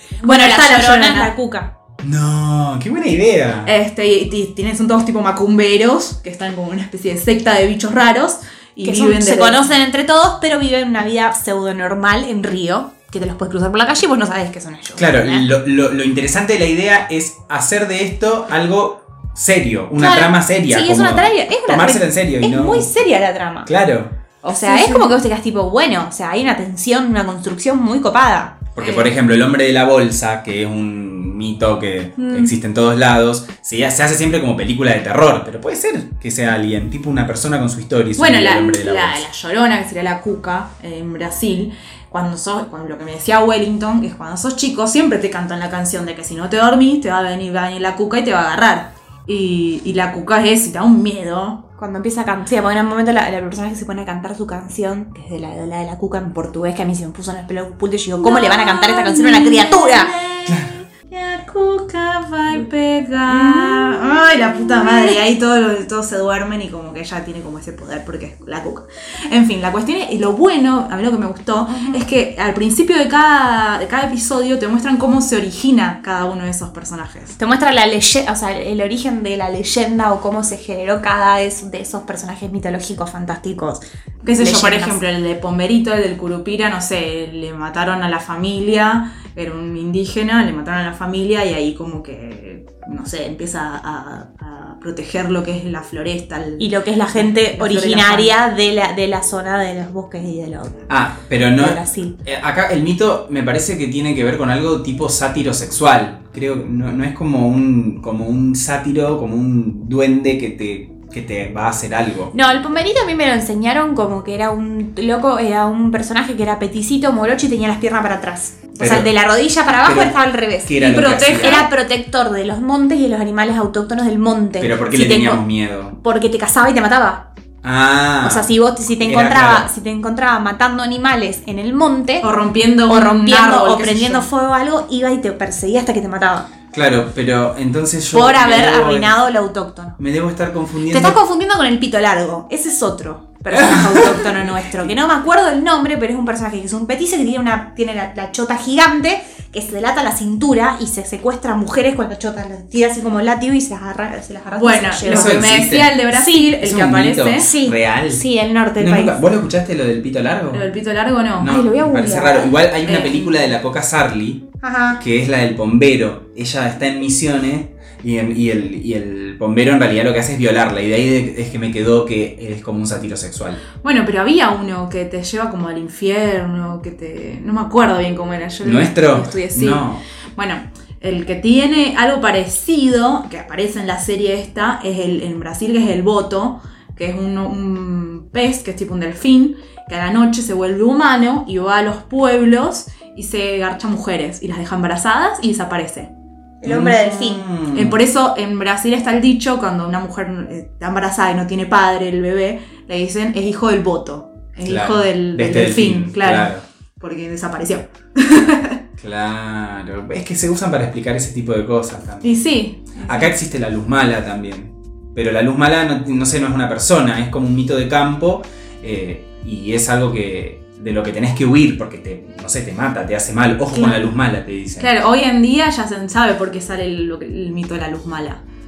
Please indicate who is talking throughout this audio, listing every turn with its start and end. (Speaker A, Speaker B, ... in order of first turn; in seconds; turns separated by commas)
Speaker A: 0.2-1.7, Speaker B: 0.2-1.3, Speaker C: 2.0-3.7, Speaker B: 3.7-9.6, Speaker A: 8.8-15.5, Speaker C: 15.0-22.9, Speaker A: 20.0-23.7, Speaker C: 23.7-24.1, Speaker A: 24.4-28.7, Speaker B: 24.5-25.1, Speaker C: 28.7-39.2, Speaker B: 28.8-29.1, Speaker A: 32.2-32.5, Speaker B: 38.2-51.6, Speaker A: 51.8-60.1, Speaker B: 58.2-77.4, Speaker C: 60.5-60.8, Speaker A: 63.3-65.5, Speaker A: 71.7-72.0, Speaker A: 77.4-83.8, Speaker B: 84.2-98.3, Speaker A: 84.3-85.0, Speaker A: 96.6-100.9, Speaker C: 100.9-112.3, Speaker A: 101.6-102.1, Speaker A: 112.3-127.3, Speaker C: 118.8-119.1, Speaker C: 119.7-121.7, Speaker B: 120.8-121.7, Speaker C: 124.6-126.0, Speaker C: 127.6-128.5, Speaker A: 128.2-132.3, Speaker C: 129.1-129.7, Speaker B: 132.2-134.3, Speaker A: 132.9-136.5, Speaker C: 136.7-139.2, Speaker A: 138.1-140.0, Speaker C: 140.0-141.2, Speaker A: 140.9-155.6, Speaker C: 143.6-144.7, Speaker B: 154.6-157.5, Speaker C: 155.1-156.0, Speaker A: 156.1-156.5, Speaker C: 156.6-158.2, Speaker A: 157.4-159.2, Speaker C: 158.8-160.7, Speaker B: 160.5-161.6, Speaker C: 161.4-173.6, Speaker A: 161.4-162.5, Speaker B: 162.8-163.4, Speaker A: 164.6-165.0, Speaker B: 173.8-196.1, Speaker C: 178.6-180.0, Speaker A: 196.6-197.5, Speaker C: 196.6-198.0, Speaker B: 197.7-208.8, Speaker C: 204.7-206.6, Speaker C: 209.0-212.4, Speaker B: 212.2-213.3, Speaker C: 213.0-224.9, Speaker A: 223.7-224.0, Speaker B: 224.8-228.4